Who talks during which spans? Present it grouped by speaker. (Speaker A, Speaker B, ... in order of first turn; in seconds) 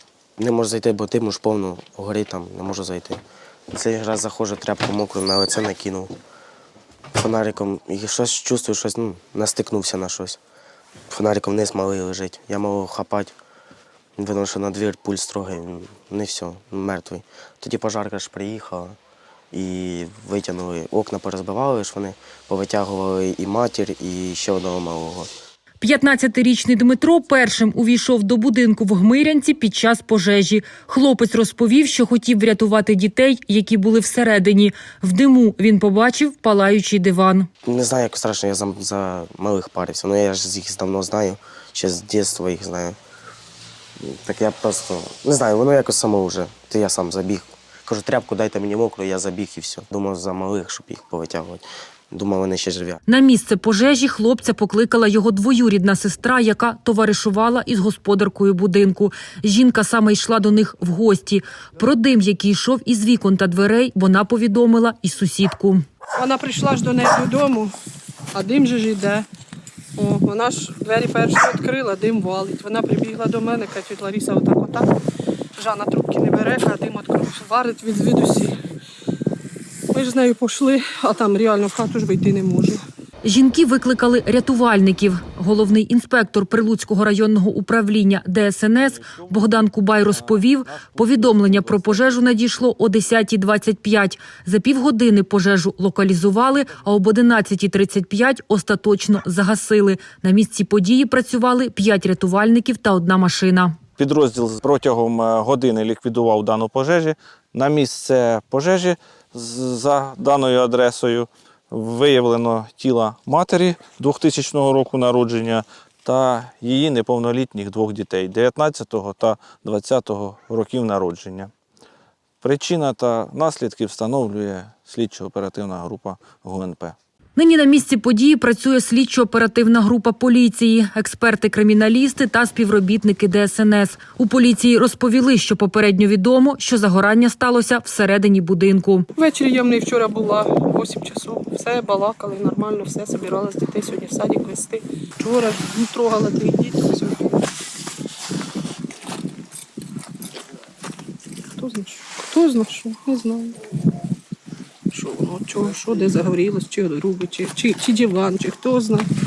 Speaker A: 0.4-3.2, 3.7-6.1, 7.2-10.4, 11.1-13.3, 14.2-18.9, 19.5-25.3, 37.6-43.0, 44.0-53.0
Speaker B: 25.8-37.5, 53.1-65.8, 83.2-103.8, 127.3-139.1
Speaker C: 66.2-67.7, 68.3-69.3, 70.0-75.0, 75.5-78.5, 79.9-82.8, 139.2-147.3, 151.6-153.6, 154.9-159.1
Speaker D: 104.0-121.5, 122.4-127.0